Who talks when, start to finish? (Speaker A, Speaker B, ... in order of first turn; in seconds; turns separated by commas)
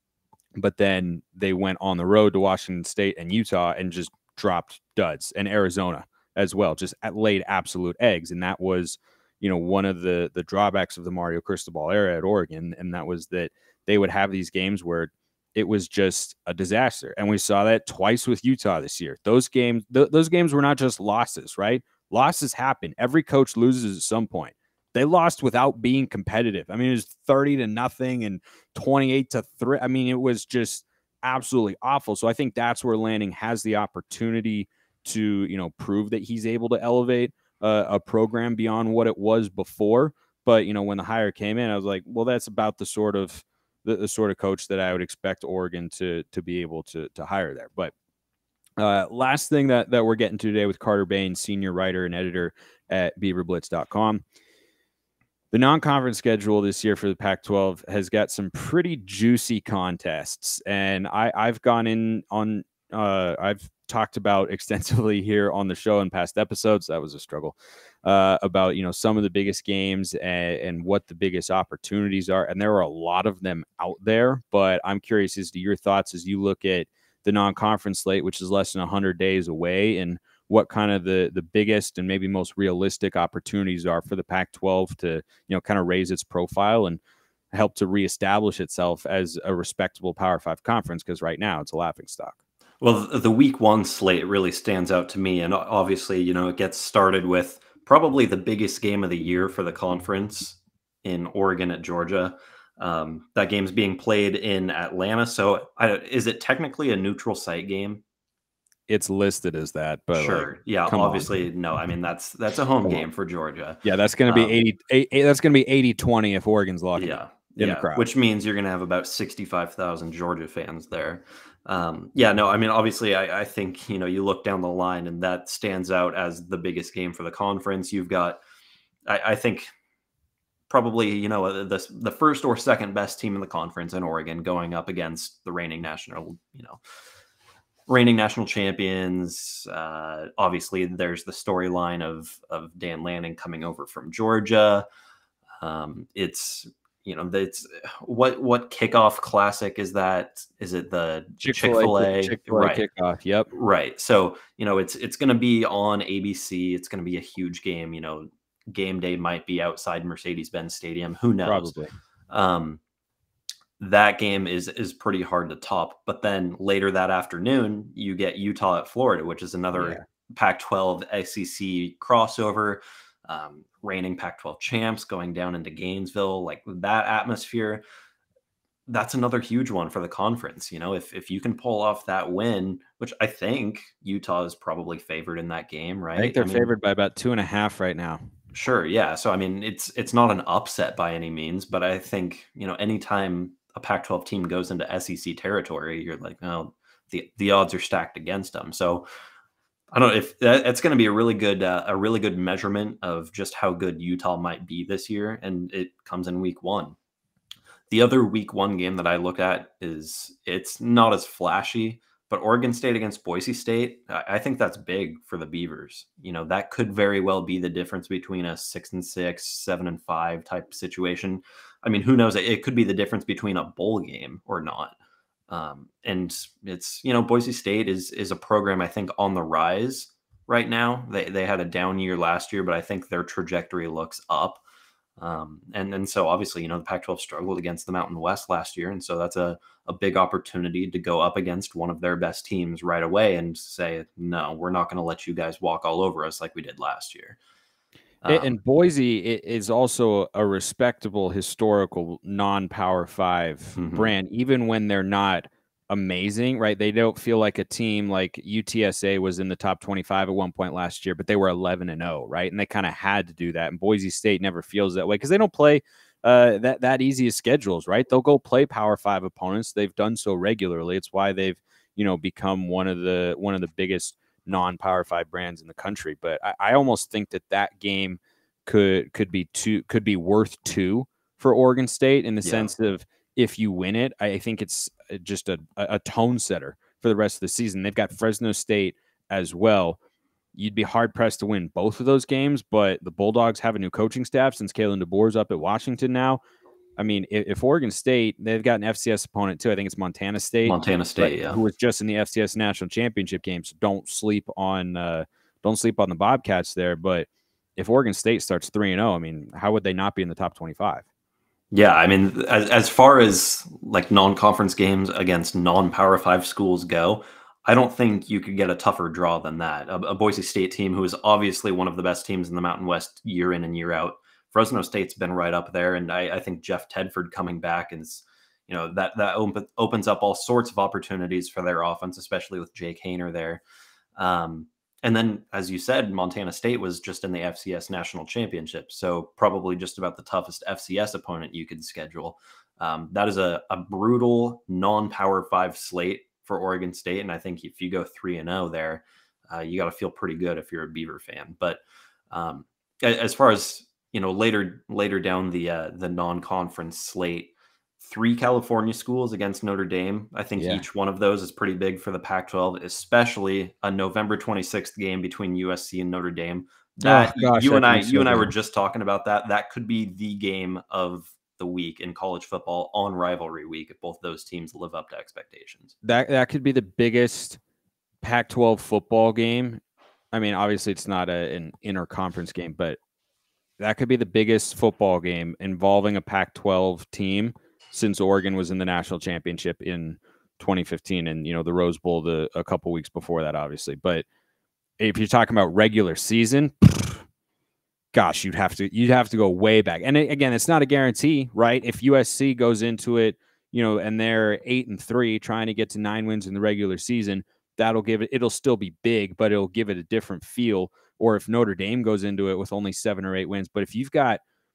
Speaker A: 0.6-47.9, Speaker A: 48.8-54.2, Speaker A: 55.5-87.0, Speaker A: 87.5-92.4, Speaker B: 92.8-108.0, Speaker A: 108.9-111.3, Speaker B: 110.1-114.6, Speaker A: 113.8-118.1, Speaker B: 117.0-128.4, Speaker B: 129.1-129.7, Speaker B: 130.7-136.8, Speaker B: 137.9-144.8, Speaker B: 145.6-152.8, Speaker A: 151.4-153.5, Speaker B: 153.5-161.7, Speaker A: 161.4-161.9, Speaker B: 162.3-162.8, Speaker B: 163.8-177.8, Speaker A: 169.8-170.0, Speaker B: 178.9-186.7, Speaker A: 186.2-188.2, Speaker B: 188.5-199.1, Speaker B: 199.9-207.0, Speaker B: 207.9-225.0, Speaker B: 225.5-234.6, Speaker B: 235.2-247.4, Speaker B: 248.2-248.6, Speaker A: 248.3-290.0, Speaker B: 253.8-254.1, Speaker B: 282.4-282.7, Speaker A: 290.6-296.4, Speaker A: 297.0-311.0, Speaker B: 300.7-301.6, Speaker B: 311.7-333.6, Speaker B: 334.2-375.9, Speaker A: 360.6-360.9, Speaker A: 367.0-368.5, Speaker A: 376.0-377.6, Speaker A: 378.2-379.8, Speaker A: 380.3-383.0, Speaker A: 383.8-394.2, Speaker A: 395.0-397.2, Speaker A: 398.1-414.4